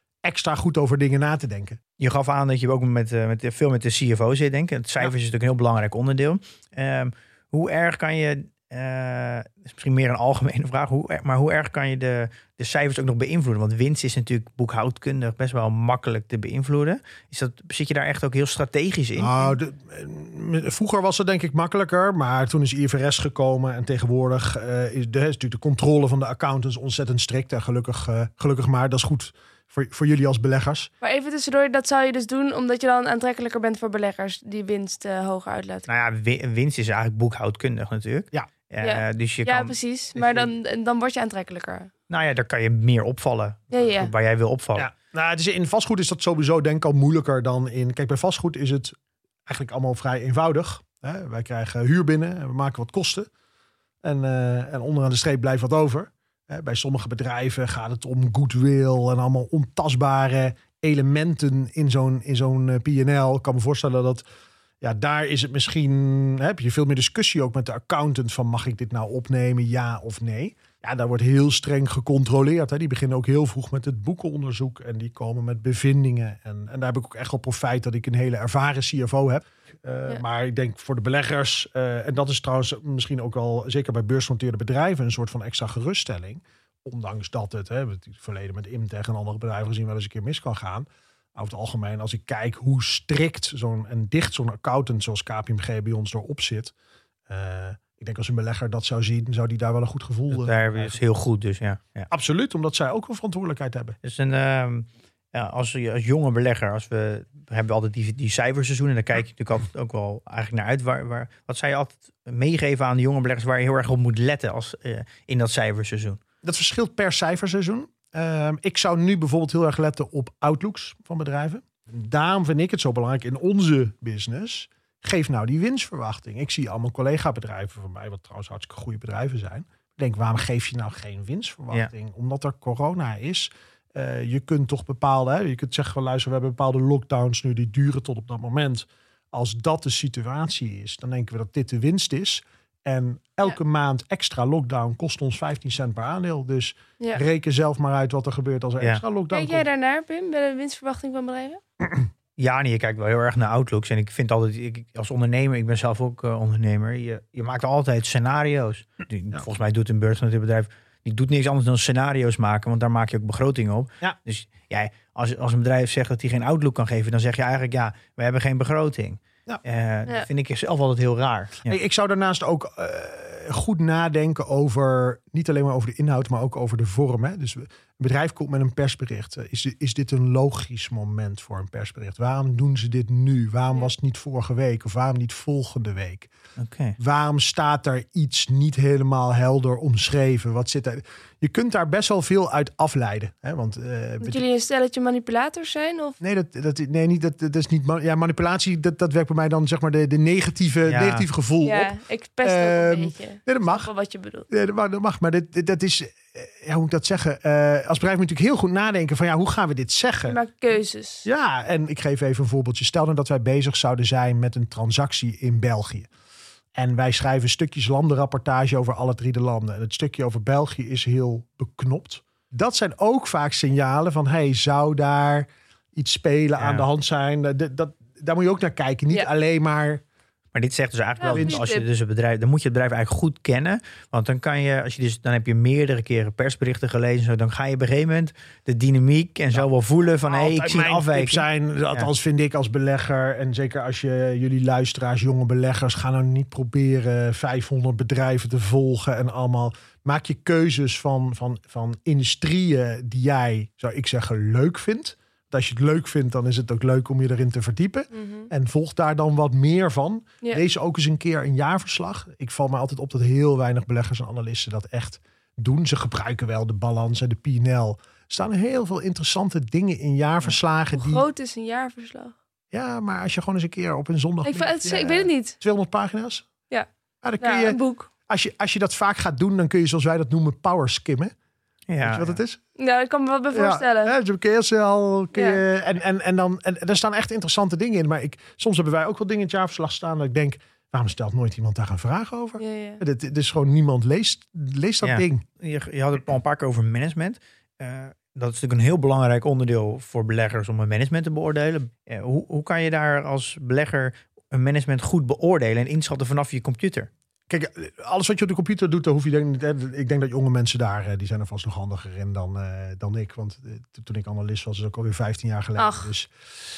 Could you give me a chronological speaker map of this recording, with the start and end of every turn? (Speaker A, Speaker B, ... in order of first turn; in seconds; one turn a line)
Speaker A: 0.2-1.8
Speaker B: 2.0-19.5
Speaker A: 19.2-30.9
Speaker C: 31.0-35.9
Speaker B: 35.9-39.7
Speaker C: 38.8-41.9
Speaker A: 40.1-40.5
Speaker B: 42.1-44.9
Speaker C: 43.7-44.1
Speaker A: 44.8-53.3
Speaker A: 54.0-64.2
Speaker A: 64.8-96.7
Speaker A: 97.3-101.0
Speaker B: 100.3-102.1
Speaker A: 102.1-104.0
Speaker B: 104.0-116.2
Speaker A: 116.4-149.7
Speaker C: 149.3-151.6
Speaker B: 152.4-171.8
Speaker A: 171.7-186.3
Speaker B: 186.6-187.0
Speaker A: 187.0-194.4
Speaker C: 194.2-196.2
Speaker A: 196.2-201.9
Speaker B: 200.8-201.2
Speaker C: 201.6-204.5
Speaker A: 202.4-203.9
Speaker A: 204.5-210.4
Speaker C: 210.3-211.2
Speaker A: 211.2-216.1
Speaker A: 216.7-230.0
Speaker B: 226.6-226.8
Speaker B: 230.5-242.1
Speaker C: 231.2-231.9
Speaker A: 231.3-231.6
Speaker A: 240.2-271.2
Speaker C: 258.1-258.5
Speaker C: 270.9-272.3
Speaker A: 272.7-276.5
Speaker C: 274.4-275.6
Speaker A: 277.2-281.3
Speaker C: 277.4-278.1
Speaker B: 281.9-282.4
Speaker A: 282.0-282.6
Speaker C: 282.8-284.1
Speaker A: 283.5-295.4
Speaker C: 285.3-285.6
Speaker C: 292.6-293.0
Speaker B: 295.0-307.1
Speaker A: 307.5-316.3
Speaker C: 315.8-316.1